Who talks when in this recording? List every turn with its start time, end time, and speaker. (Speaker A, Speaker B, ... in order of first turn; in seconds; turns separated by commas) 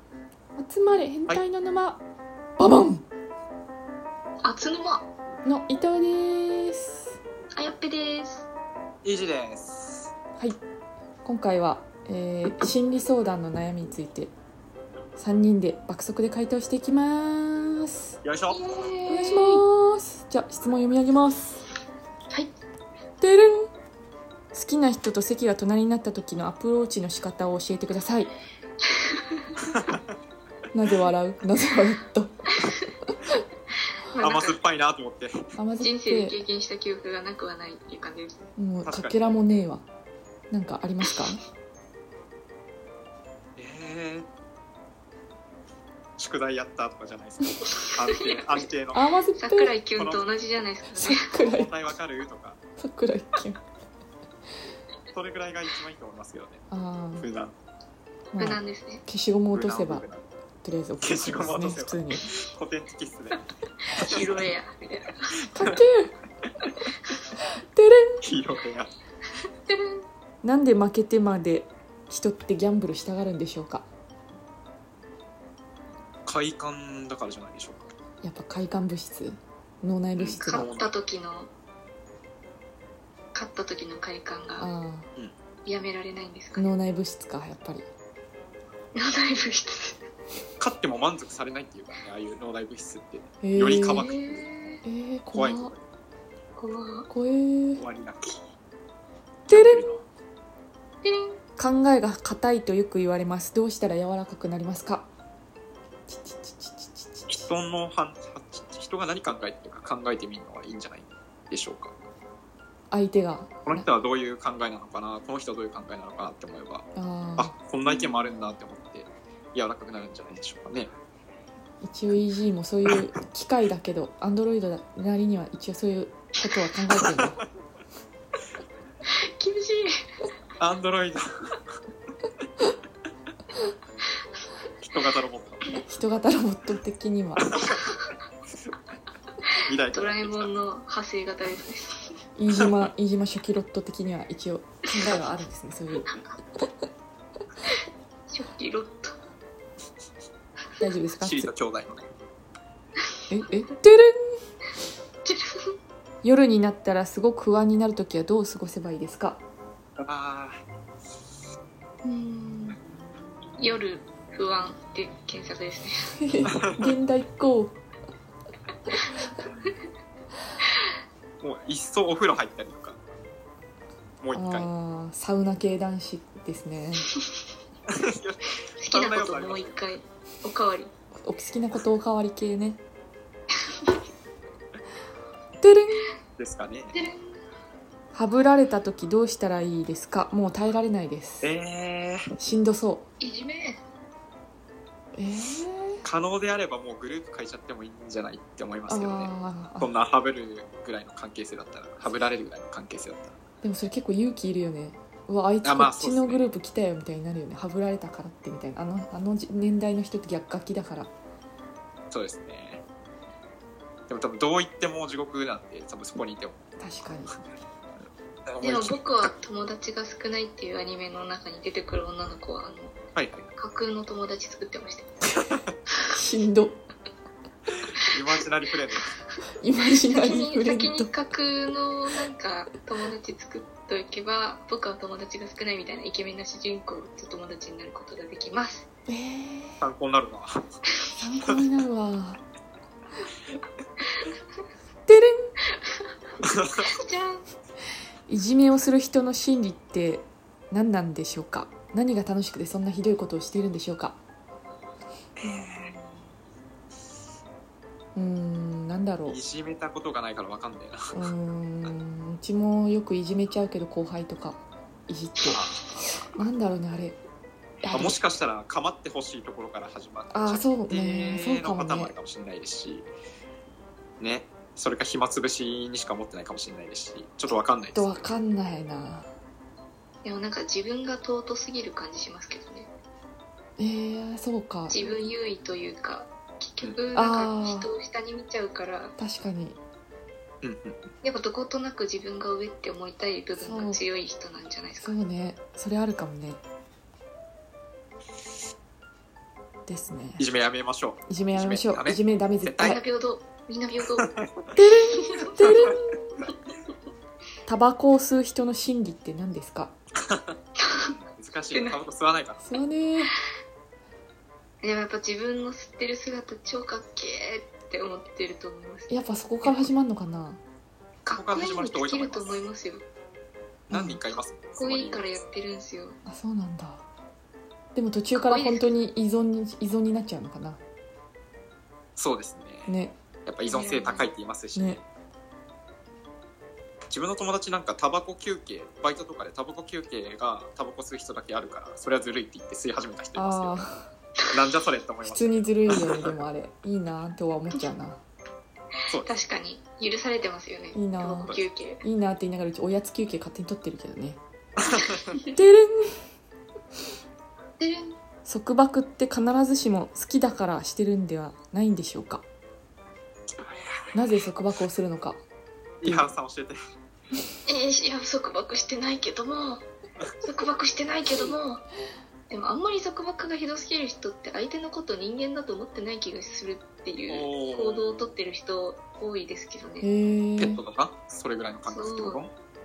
Speaker A: 0.6-2.0, Speaker A: 2.6-3.0, Speaker B: 4.4-5.1, Speaker A: 5.4-7.1, Speaker B: 7.5-8.4, Speaker C: 9.0-10.1, Speaker A: 11.2-14.3, Speaker A: 15.2-18.1, Speaker C: 18.2-18.6, Speaker B: 18.5-19.6, Speaker A: 19.1-21.7, Speaker A: 23.2-23.7, Speaker A: 24.5-28.3, Speaker B: 29.0-29.4, Speaker C: 29.6-30.0, Speaker A: 30.7-32.4, Speaker B: 34.1-34.6, Speaker C: 34.2-35.4, Speaker A: 35.6-36.4, Speaker B: 35.8-38.4, Speaker A: 38.6-39.9, Speaker C: 38.8-39.4, Speaker A: 40.5-41.4, Speaker C: 43.6-44.3, Speaker C: 46.2-49.0, Speaker B: 47.7-48.6, Speaker A: 48.9-49.8, Speaker B: 49.4-51.4, Speaker C: 50.0-50.2, Speaker A: 51.0-51.7, Speaker C: 51.3-52.6, Speaker A: 52.8-53.6, Speaker C: 55.1-56.6, Speaker A: 56.7-57.3, Speaker C: 57.2-57.5, Speaker A: 58.3-60.0, Speaker B: 58.4-59.0, Speaker C: 59.5-60.3, Speaker A: 60.6-62.3, Speaker C: 61.0-64.5, Speaker B: 63.9-65.4, Speaker A: 65.5-66.1, Speaker A: 67.7-68.2, Speaker C: 68.2-68.9, Speaker B: 69.7-70.0, Speaker A: 70.4-73.8, Speaker C: 76.2-77.9, Speaker A: 78.2-80.7, Speaker C: 80.2-80.9, Speaker B: 80.4-81.5, Speaker B: 83.3-84.7, Speaker A: 84.6-85.1, Speaker B: 85.7-86.7, Speaker A: 86.5-87.9, Speaker B: 89.0-90.0, Speaker C: 90.6-94.5, Speaker A: 93.4-94.0, Speaker B: 93.9-94.8, Speaker A: 94.8-95.7, Speaker C: 95.3-95.8, Speaker B: 96.6-97.1, Speaker A: 97.1-97.8, Speaker C: 97.8-98.4, Speaker A: 99.5-100.0, Speaker C: 99.5-100.0, Speaker B: 101.0-101.4, Speaker A: 101.6-105.1, Speaker A: 106.1-107.5, Speaker C: 107.3-111.9, Speaker A: 112.9-113.8, Speaker C: 113.6-116.8, Speaker A: 117.0-117.5, Speaker C: 117.4-120.9, Speaker A: 121.8-127.4, Speaker B: 129.1-130.0, Speaker C: 130.6-131.6, Speaker C: 134.8-135.6, Speaker A: 135.8-137.5, Speaker C: 137.4-137.8, Speaker C: 139.7-140.5, Speaker B: 139.9-142.1, Speaker A: 142.3-146.7, Speaker C: 142.5-142.9, Speaker B: 148.3-149.2, Speaker A: 150.8-151.5, Speaker C: 151.2-152.1, Speaker A: 153.3-154.4, Speaker B: 155.2-155.7, Speaker A: 156.2-159.4, Speaker C: 160.0-160.6, Speaker B: 162.0-162.8, Speaker B: 163.6-166.0, Speaker A: 166.2-167.7, Speaker C: 166.5-166.9, Speaker C: 171.4-173.0, Speaker C: 174.2-174.7, Speaker A: 174.3-177.1, Speaker C: 177.9-179.9, Speaker B: 178.8-180.9, Speaker A: 181.2-182.8, Speaker A: 185.6-186.1, Speaker C: 186.4-187.0, Speaker B: 186.9-187.4, Speaker A: 188.1-191.5, Speaker C: 191.4-192.3, Speaker A: 192.4-193.0, Speaker B: 193.2-193.8, Speaker A: 195.1-196.0, Speaker C: 196.0-203.3, Speaker A: 198.9-199.9, Speaker A: 203.6-211.1, Speaker C: 205.6-206.4, Speaker C: 212.1-212.8, Speaker C: 214.1-216.7, Speaker A: 216.8-217.3, Speaker C: 218.5-219.0, Speaker B: 218.6-223.0, Speaker C: 223.1-223.4, Speaker B: 223.6-225.2, Speaker A: 226.1-226.8, Speaker C: 228.1-229.1, Speaker A: 229.6-231.1, Speaker B: 229.9-238.8, Speaker A: 239.1-239.8, Speaker C: 239.8-240.7, Speaker A: 241.2-242.4, Speaker A: 245.1-245.5, Speaker C: 246.4-246.9, Speaker B: 246.9-247.4, Speaker A: 248.3-254.2, Speaker C: 255.4-255.9, Speaker A: 258.1-259.4, Speaker C: 259.3-261.2, Speaker A: 261.1-265.6, Speaker C: 265.5-265.8, Speaker A: 266.2-267.2, Speaker A: 267.8-268.2, Speaker C: 267.9-273.1, Speaker A: 270.3-272.1, Speaker C: 274.2-278.3, Speaker A: 277.9-279.3, Speaker B: 280.2-282.9, Speaker A: 283.8-285.1, Speaker B: 284.9-289.1, Speaker A: 287.1-287.9, Speaker A: 289.2-289.8, Speaker C: 290.6-291.0, Speaker B: 291.2-295.2, Speaker A: 293.6-294.0, Speaker A: 295.0-296.6, Speaker A: 299.9-300.4, Speaker C: 300.4-303.0, Speaker A: 301.3-303.0, Speaker B: 302.8-304.3, Speaker C: 304.1-304.7, Speaker A: 304.7-306.1, Speaker B: 305.2-305.9, Speaker A: 307.6-309.9, Speaker C: 310.2-310.6, Speaker B: 310.8-311.1, Speaker C: 311.1-312.8, Speaker B: 311.7-312.0, Speaker A: 312.6-313.3, Speaker B: 314.8-319.8, Speaker A: 319.1-320.6, Speaker B: 321.2-323.0, Speaker C: 321.3-322.6, Speaker A: 323.9-324.2, Speaker C: 323.9-325.4, Speaker B: 324.8-326.2, Speaker A: 326.2-327.0, Speaker A: 327.9-330.8, Speaker B: 328.3-328.9, Speaker C: 332.1-332.9, Speaker A: 332.9-333.1, Speaker C: 333.4-335.0, Speaker B: 333.6-334.2, Speaker A: 333.8-334.2, Speaker A: 334.7-335.0, Speaker C: 337.1-343.9, Speaker A: 343.4-344.1, Speaker C: 344.5-346.4, Speaker A: 345.2-348.2, Speaker B: 349.1-352.0, Speaker A: 350.9-354.4, Speaker C: 354.8-355.2, Speaker A: 355.5-356.2, Speaker B: 357.8-358.1, Speaker A: 358.4-362.4, Speaker C: 363.6-364.1, Speaker A: 364.1-365.4, Speaker C: 366.0-366.8, Speaker A: 366.0-366.3, Speaker B: 367.6-369.9, Speaker B: 370.4-371.8, Speaker B: 372.5-380.1, Speaker C: 377.3-378.4, Speaker A: 380.0-380.8, Speaker C: 380.6-382.5, Speaker B: 381.9-382.4